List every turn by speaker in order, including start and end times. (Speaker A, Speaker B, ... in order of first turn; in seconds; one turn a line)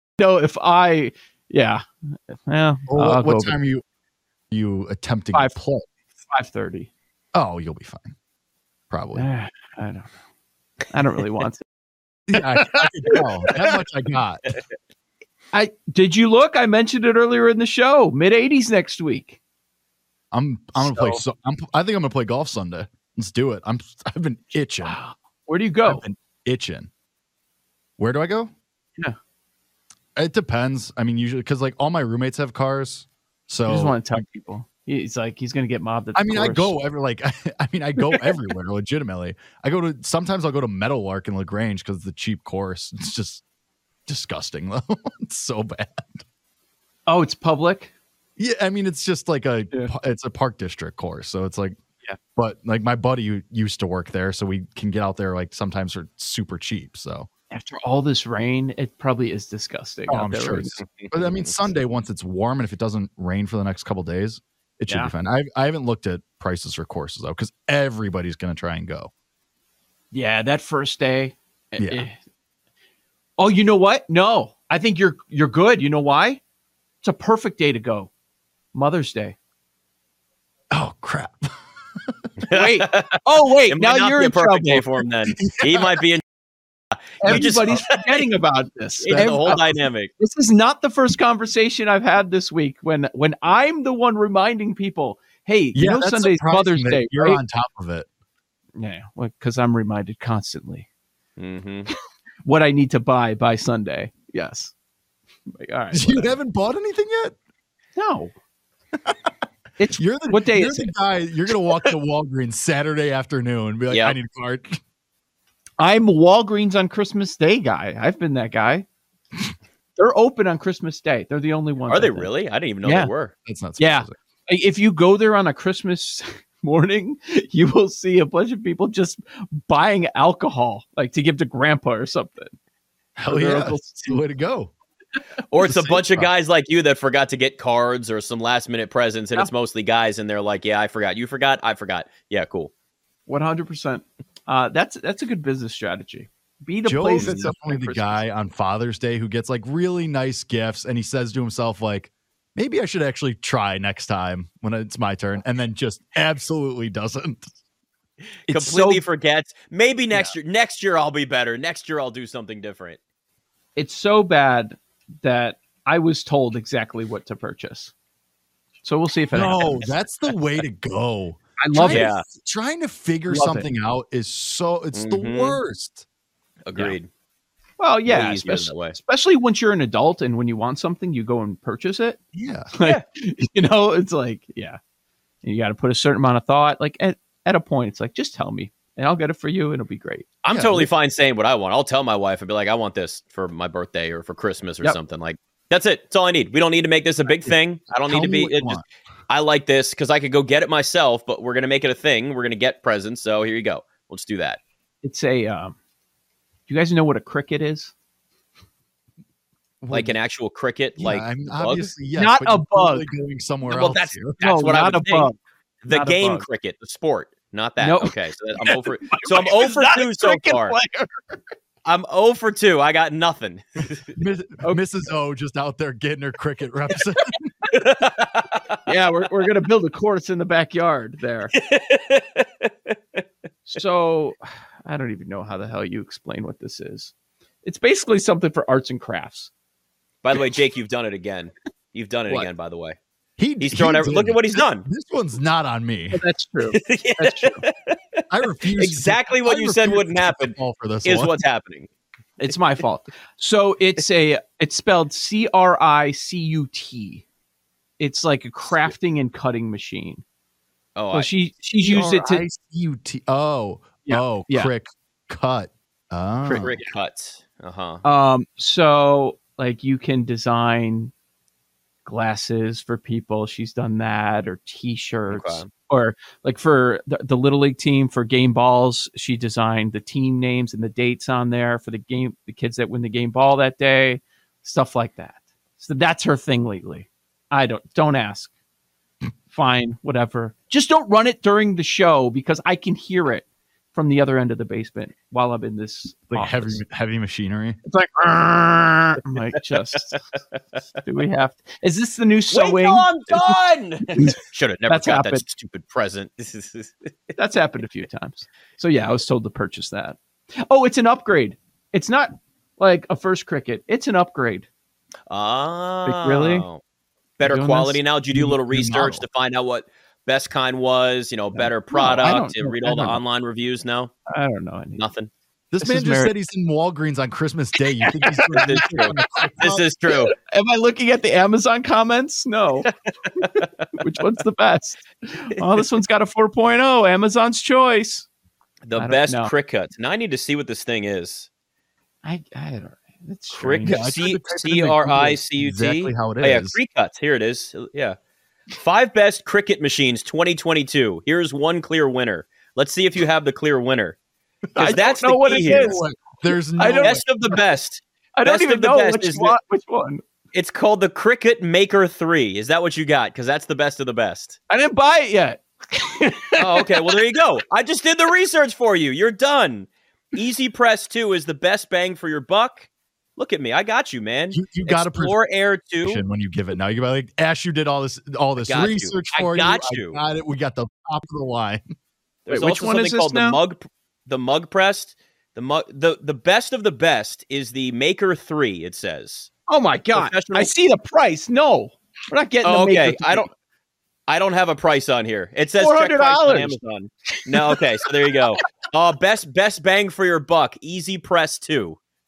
Speaker A: 0.2-3.5
Speaker B: 2.9-3.8
Speaker B: 4.5-5.8
Speaker A: 6.3-6.9
Speaker B: 7.3-8.1
Speaker B: 8.9-9.3
Speaker A: 9.2-10.1
Speaker A: 10.9-11.6
Speaker B: 12.3-14.5
Speaker A: 15.5-19.4
Speaker B: 20.3-25.0
Speaker A: 20.8-21.2
Speaker A: 24.8-26.0
Speaker B: 25.9-26.9
Speaker B: 28.0-28.5
Speaker B: 30.2-34.2
Speaker A: 33.7-36.7
Speaker B: 36.1-43.4
Speaker B: 44.1-46.2
Speaker A: 47.1-47.9
Speaker B: 48.4-51.8
Speaker B: 52.4-57.3
Speaker A: 57.5-60.8
Speaker B: 60.1-69.1
Speaker C: 61.0-61.5
Speaker A: 70.1-72.2
Speaker B: 71.8-72.1
Speaker A: 73.4-76.4
Speaker A: 77.0-78.1
Speaker A: 78.7-79.4
Speaker B: 80.7-81.5
Speaker C: 82.5-83.1
Speaker A: 82.5-85.0
Speaker C: 83.7-86.2
Speaker B: 85.4-86.0
Speaker C: 87.1-88.2
Speaker A: 87.2-97.4
Speaker B: 87.3-87.8
Speaker C: 89.0-90.1
Speaker B: 89.0-89.4
Speaker B: 95.8-98.1
Speaker A: 98.8-100.9
Speaker C: 101.4-101.9
Speaker A: 102.4-104.7
Speaker A: 105.5-106.4
Speaker B: 105.9-107.4
Speaker A: 108.0-108.3
Speaker A: 109.8-110.9
Speaker B: 110.0-114.8
Speaker C: 113.9-114.2
Speaker A: 115.8-118.9
Speaker A: 120.0-122.3
Speaker C: 121.9-123.3
Speaker A: 122.8-123.1
Speaker B: 123.5-124.2
Speaker A: 123.8-132.5
Speaker B: 133.2-134.7
Speaker A: 133.3-134.2
Speaker C: 135.5-142.7
Speaker B: 135.6-136.3
Speaker A: 143.3-148.2
Speaker B: 146.9-157.5
Speaker A: 158.5-159.0
Speaker C: 158.5-163.0
Speaker A: 163.8-167.9
Speaker A: 168.8-170.0
Speaker B: 169.3-176.1
Speaker A: 171.6-172.1
Speaker C: 171.9-172.2
Speaker A: 173.3-173.7
Speaker C: 174.9-175.6
Speaker C: 176.7-177.1
Speaker A: 177.8-182.2
Speaker C: 178.1-179.0
Speaker B: 182.3-182.7
Speaker A: 182.8-184.8
Speaker A: 185.4-190.3
Speaker C: 190.4-204.6
Speaker B: 190.5-190.9
Speaker B: 198.1-198.8
Speaker A: 205.0-205.8
Speaker A: 206.7-207.9
Speaker B: 209.8-210.1
Speaker C: 209.9-211.9
Speaker B: 211.0-214.4
Speaker A: 212.2-213.1
Speaker C: 213.7-215.3
Speaker A: 214.4-215.4
Speaker C: 215.8-220.8
Speaker A: 215.9-216.5
Speaker A: 217.8-221.4
Speaker C: 221.8-224.1
Speaker B: 224.2-227.5
Speaker C: 227.7-228.6
Speaker A: 228.9-231.5
Speaker C: 231.6-233.2
Speaker A: 233.7-237.1
Speaker A: 237.6-239.5
Speaker C: 240.2-243.0
Speaker B: 243.4-246.2
Speaker C: 243.6-244.8
Speaker A: 246.1-247.6
Speaker C: 246.7-247.9
Speaker B: 248.3-251.3
Speaker C: 248.8-251.9
Speaker A: 252.4-257.2
Speaker A: 258.0-260.2
Speaker C: 261.0-261.3
Speaker A: 261.1-262.4
Speaker B: 261.8-266.8
Speaker A: 264.1-264.7
Speaker C: 266.4-268.0
Speaker A: 268.0-271.1
Speaker A: 272.1-288.5
Speaker C: 275.3-275.7
Speaker A: 289.5-296.8
Speaker B: 296.3-297.8
Speaker A: 297.9-300.2
Speaker A: 301.0-303.6
Speaker C: 302.5-307.1
Speaker A: 304.9-305.4
Speaker A: 307.4-314.7
Speaker C: 315.3-316.8
Speaker A: 316.1-316.7
Speaker C: 317.4-324.1
Speaker A: 317.4-318.0
Speaker B: 318.3-319.2
Speaker A: 321.6-323.2
Speaker A: 324.3-325.0
Speaker C: 325.0-325.3
Speaker B: 325.7-329.8
Speaker A: 325.8-326.3
Speaker C: 328.6-330.3
Speaker A: 330.4-332.9
Speaker A: 334.0-338.3
Speaker C: 338.9-341.5
Speaker A: 339.0-339.5
Speaker A: 342.2-344.1
Speaker C: 343.5-348.2
Speaker B: 343.9-346.8
Speaker C: 348.8-354.2
Speaker B: 354.7-357.2
Speaker A: 354.8-356.0
Speaker C: 354.8-356.0
Speaker A: 356.8-357.6
Speaker C: 357.0-359.6
Speaker A: 358.4-360.2
Speaker C: 360.5-364.6
Speaker A: 364.7-366.9
Speaker C: 366.6-376.2
Speaker B: 374.5-375.4
Speaker B: 376.0-381.8
Speaker C: 378.6-380.2
Speaker C: 382.5-389.5
Speaker A: 382.5-383.6
Speaker A: 389.7-393.5
Speaker C: 390.1-390.7
Speaker C: 392.6-393.5
Speaker C: 394.3-402.0
Speaker A: 395.8-396.8